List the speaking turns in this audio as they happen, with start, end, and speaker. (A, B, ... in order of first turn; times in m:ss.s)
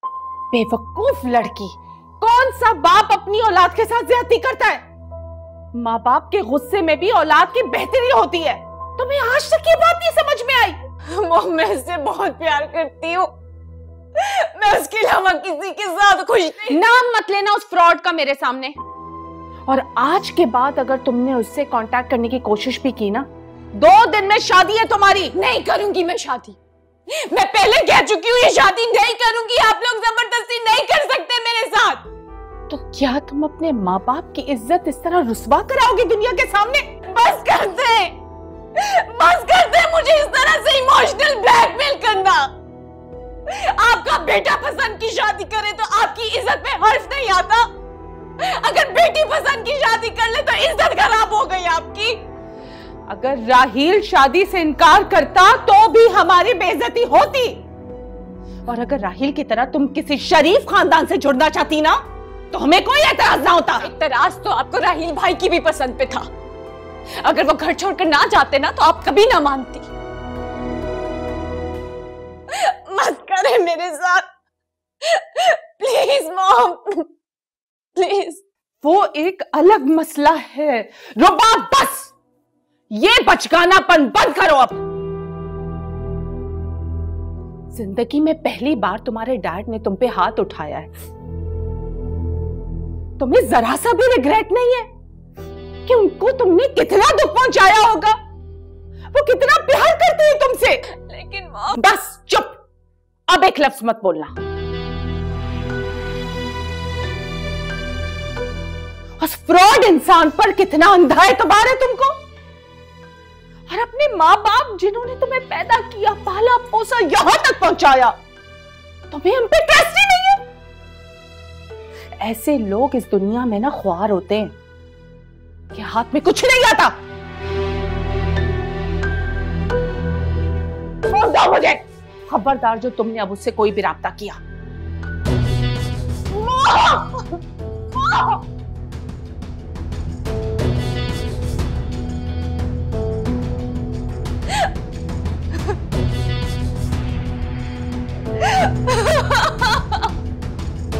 0:00.5-0:04.8 A
0:05.7-0:10.8 A
0:11.1-0:13.3 B
0:14.1-0:16.8 B
0:16.7-0:18.8 A
0:19.7-0:25.3 A
0:25.3-0:26.6 B
0:27.1-0:32.0 B
0:32.7-0:36.9 A
0:37.0-0:38.1 B
0:38.7-0:42.5 B
0:43.5-0:47.7 B
0:48.4-0:52.2 B
0:53.1-0:57.6 A
0:58.6-1:02.0 A
1:02.5-1:03.9 A
1:03.8-1:06.3 B
1:07.2-1:09.9 B
1:12.5-1:14.2 B
1:15.0-1:17.0 B
1:17.9-1:18.4 B
1:18.8-1:22.1 A
1:22.9-1:24.8 A
1:27.7-1:30.9 A
1:33.2-1:34.9 A
1:35.8-1:38.1 A
1:39.1-1:40.8 A
1:40.9-1:41.8 B
1:41.7-1:42.6 A
1:43.3-1:44.3 A
1:49.2-1:52.1 A
1:53.7-1:58.1 A
1:59.1-2:00.4 A
2:02.2-2:04.5 A
2:05.7-2:06.9 A
2:11.1-2:14.4 A
2:16.3-2:17.1 A
2:29.1-2:29.4 B